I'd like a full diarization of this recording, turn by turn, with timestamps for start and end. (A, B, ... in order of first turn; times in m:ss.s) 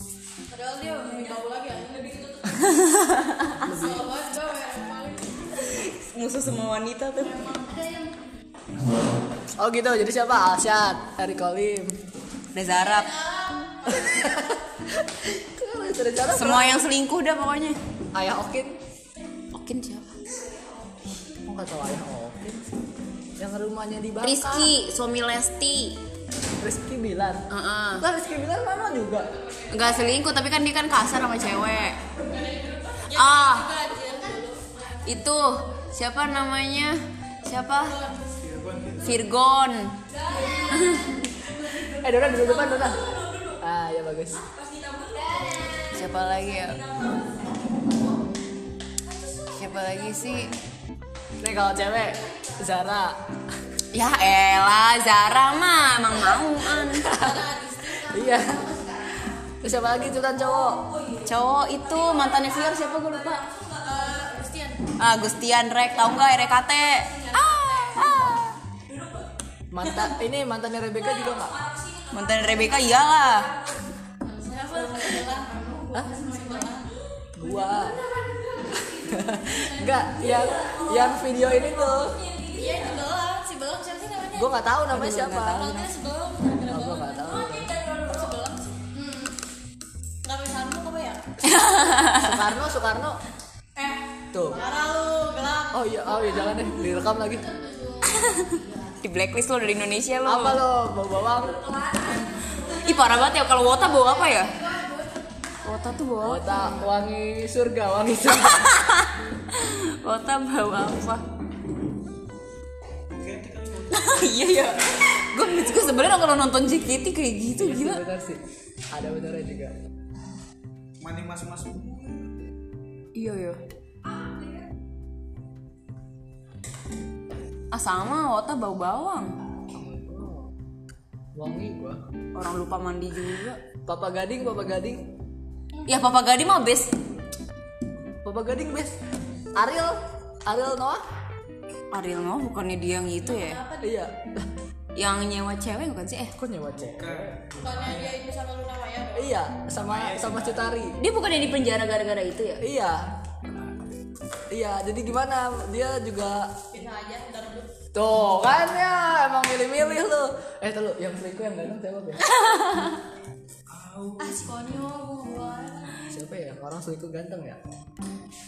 0:00.5-0:02.7 A
0:02.5-0:03.7 B
0:03.6-0:04.1 C
0:03.7-0:05.4 A
0:05.5-0:07.5 B
0:07.2-0:08.2 A
0:09.6-0:12.0 C
0:12.5-0:13.5 B
0:12.8-0:14.4 A
0:13.8-0:16.9 C
0:16.2-0:17.8 B
0:18.1-0:18.7 C
0:19.5-0:20.3 B
0:20.2-0:20.9 A
0:21.5-0:22.7 C
0:23.4-0:24.7 C
0:24.2-0:26.0 B
0:26.6-0:27.4 C
0:27.5-0:28.0 B
0:28.0-0:29.3 C
0:29.5-0:29.9 A
0:29.7-0:32.0 B
0:32.1-0:35.0 A
0:33.1-0:33.8 B
0:35.0-0:38.0 B
0:37.9-0:38.3 A
0:38.4-0:39.2 D
0:39.0-0:41.1 B
0:40.1-0:43.6 A
0:41.9-0:44.4 C
0:44.4-0:48.1 A
0:45.9-0:46.8 B
0:49.0-0:50.6 A
0:49.6-0:50.6 B
0:51.4-0:53.2 C
0:52.1-0:52.6 A
0:53.9-0:57.2 B
0:56.8-0:58.7 C
0:57.1-0:59.4 A
0:59.6-1:00.9 C
1:00.6-1:04.8 A
1:01.2-1:03.4 B
1:05.0-1:08.6 B
1:06.8-1:09.3 A
1:09.7-1:11.6 C
1:11.0-1:24.5 A
1:12.1-1:13.5 B
1:15.9-1:16.2 C
1:17.4-1:18.0 C
1:18.7-1:22.2 C
1:24.3-1:25.7 C
1:24.9-1:25.9 B
1:25.5-1:29.4 A
1:26.7-1:27.8 C
1:30.2-1:31.2 A
1:31.4-1:32.4 B
1:32.1-1:33.2 C
1:33.8-1:38.9 A
1:34.3-1:34.6 C
1:35.7-1:37.5 C
1:38.0-1:38.5 B
1:39.0-1:40.6 B
1:40.2-1:42.0 C
1:41.4-1:45.4 A
1:42.7-1:44.6 B
1:45.6-1:46.7 B
1:46.2-1:48.8 C
1:48.3-1:51.2 B
1:53.1-1:54.3 D
1:53.9-1:58.0 B
1:57.6-1:58.4 C
1:58.9-1:59.7 C
2:01.0-2:02.3 D
2:03.1-2:03.6 B
2:07.7-2:09.3 B
2:09.7-2:10.5 C
2:11.3-2:12.0 C
2:12.3-2:13.6 B
2:13.8-2:15.1 C
2:15.8-2:16.9 B
2:18.2-2:19.0 C
2:19.6-2:21.0 C
2:21.9-2:23.6 B
2:23.3-2:23.8 A
2:23.8-2:24.5 C
2:24.9-2:26.3 B
2:26.4-2:27.4 C
2:26.7-2:28.2 D
2:27.6-2:29.3 A
2:29.1-2:31.0 C
2:29.8-2:30.8 D
2:31.0-2:32.6 B
2:32.6-2:33.0 C
2:34.5-2:36.5 C
2:36.7-2:37.7 A
2:37.9-2:42.4 C
2:42.4-2:42.9 B
2:43.7-2:44.8 D
2:44.2-2:46.1 A
2:46.0-2:47.6 C